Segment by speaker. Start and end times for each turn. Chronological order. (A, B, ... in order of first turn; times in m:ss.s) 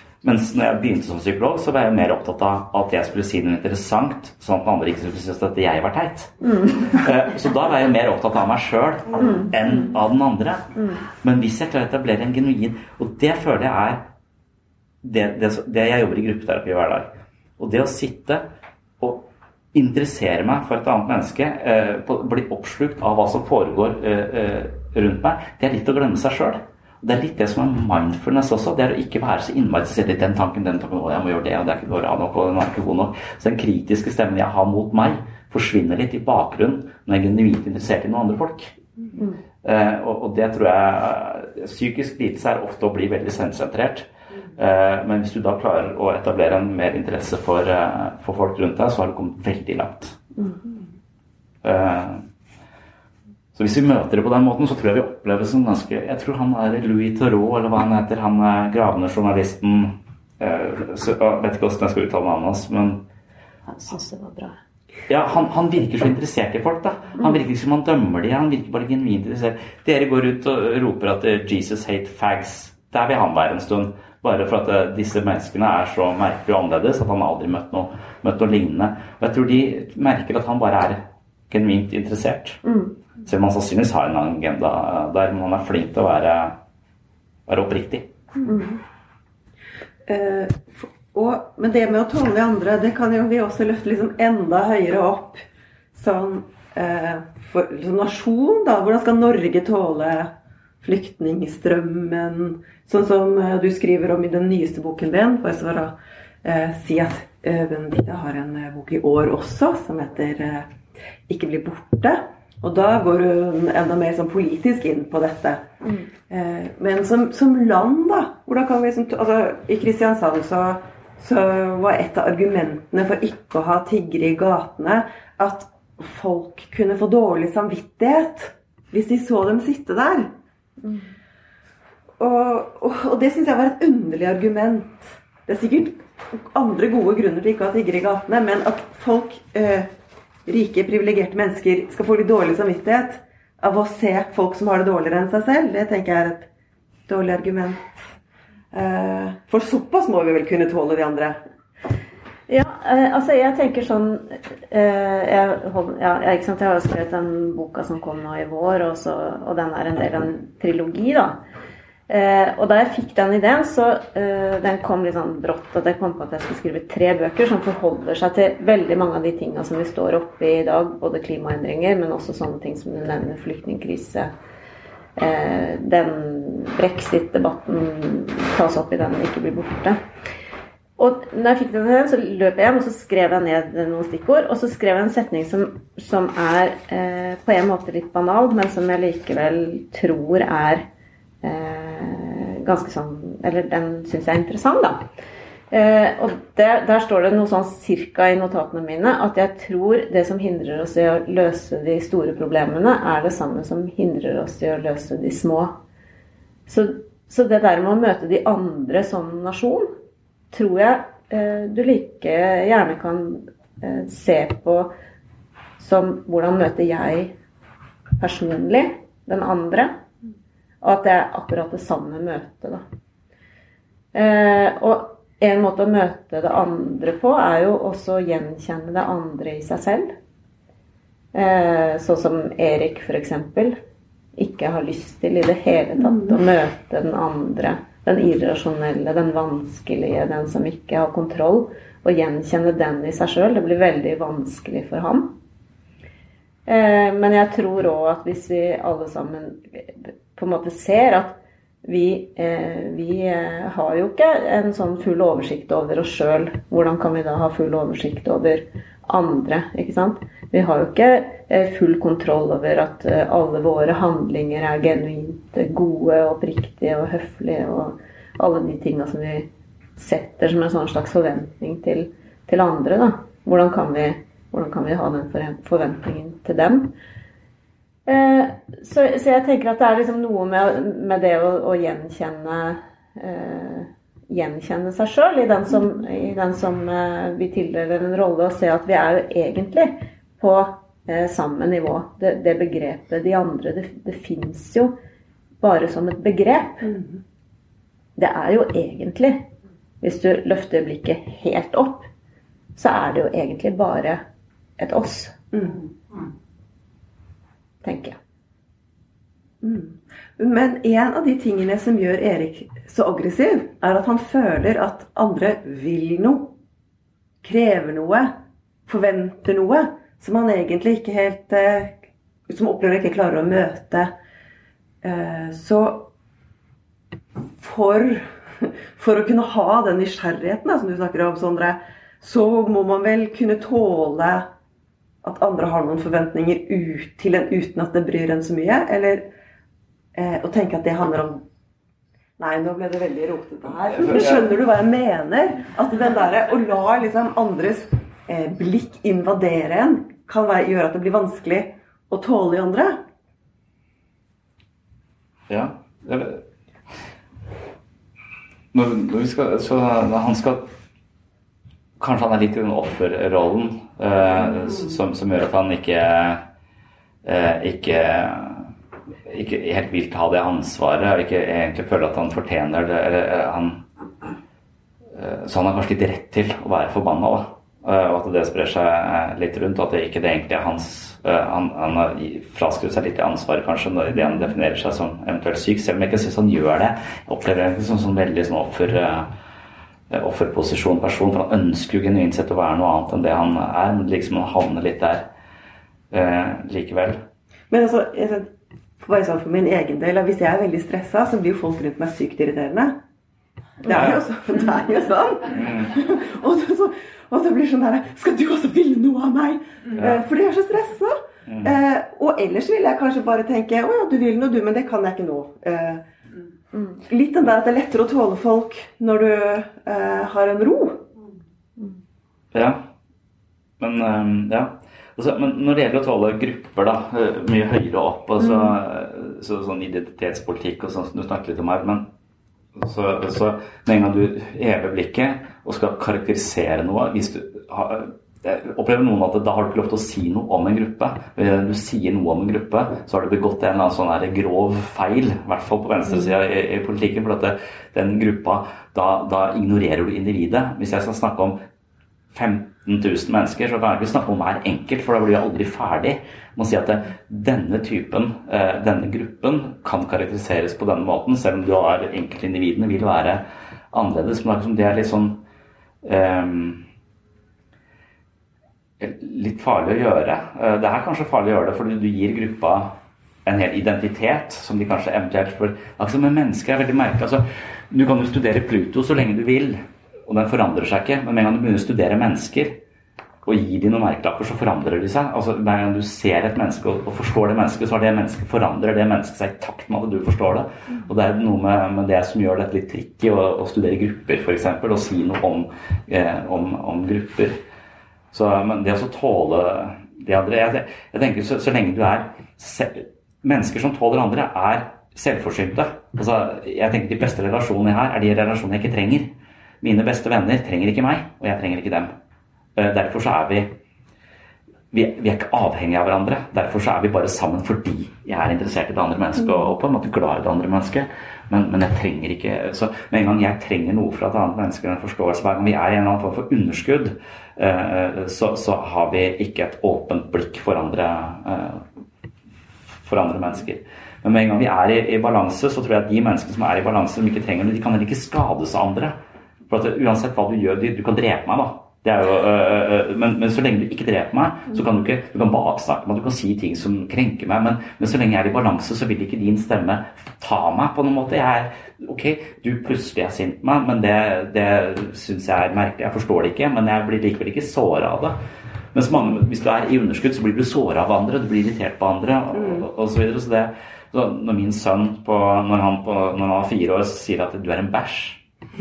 0:00.2-0:14.1 A
0:06.4-0:06.8 B
0:09.2-0:09.5 B
0:10.8-0:11.0 B
0:15.0-0:18.4 A
0:19.0-0:38.8 A
0:39.6-0:50.2 A
0:51.6-0:52.2 A
0:53.5-1:03.0 A
1:03.7-1:04.6 B
1:05.1-1:22.6 A
1:22.6-1:23.0 B
1:23.2-1:26.6 A
1:27.5-1:28.1 A
1:28.4-1:28.8 B
1:30.0-1:35.4 C
1:35.9-1:50.7 C
1:51.3-1:55.6 C
1:55.8-1:56.1 B
1:56.3-2:10.3 C
2:10.8-2:11.1 B
2:12.2-2:19.9 C
2:20.4-2:26.5 C
2:27.1-2:28.0 C
2:28.7-2:31.4 C
2:32.5-2:41.4 B
2:42.1-2:54.3 B
2:55.2-3:00.0 B
3:01.0-3:10.9 B
3:11.4-3:15.0 B
3:15.7-3:25.8 B
3:26.7-3:29.9 B
3:30.5-3:34.9 B
3:35.8-3:37.3 B
3:38.2-3:39.9 B
3:40.8-3:42.8 B
3:44.1-3:50.1 B
3:51.3-3:53.8 B
3:54.4-4:05.4 B
3:56.0-3:56.4 C
4:06.7-4:36.9 B
4:38.0-4:54.9 B
4:55.6-4:56.9 B
4:56.8-4:57.2 C
4:58.2-4:59.5 B
5:00.0-5:02.1 B
5:02.8-5:04.2 B
5:04.8-5:05.3 B
5:05.5-5:05.9 C
5:07.8-5:08.2 B
5:09.6-5:16.5 C
5:17.4-5:18.3 C
5:18.9-5:22.0 C
5:22.5-5:24.1 C
5:25.0-5:26.1 C
5:27.6-5:34.5 C
5:35.2-5:39.3 C
5:40.1-5:41.4 C
5:42.4-5:53.0 C
5:44.0-5:44.4 A
5:55.5-5:56.4 A
5:58.7-6:00.7 A
6:02.0-6:06.4 A
6:07.2-6:08.7 A
6:09.3-6:13.8 A
6:15.1-6:29.3 A
6:30.1-6:35.3 A
6:36.1-6:37.2 A
6:37.7-6:43.0 C
6:43.8-6:56.0 C
6:43.9-6:44.2 A
6:45.5-6:45.9 A
6:50.0-6:50.2 A
6:51.5-6:51.8 A
6:57.0-7:01.1 C
7:02.5-7:02.8 A
7:03.8-7:12.1 A
7:12.8-7:31.6 A
7:32.3-7:45.4 A
7:46.0-7:46.8 A
7:49.0-8:02.8 A
8:03.4-8:17.6 A
8:18.3-8:32.1 A
8:32.8-8:33.8 A
8:34.9-8:51.8 A
8:53.0-9:18.4 A
9:18.9-9:28.4 A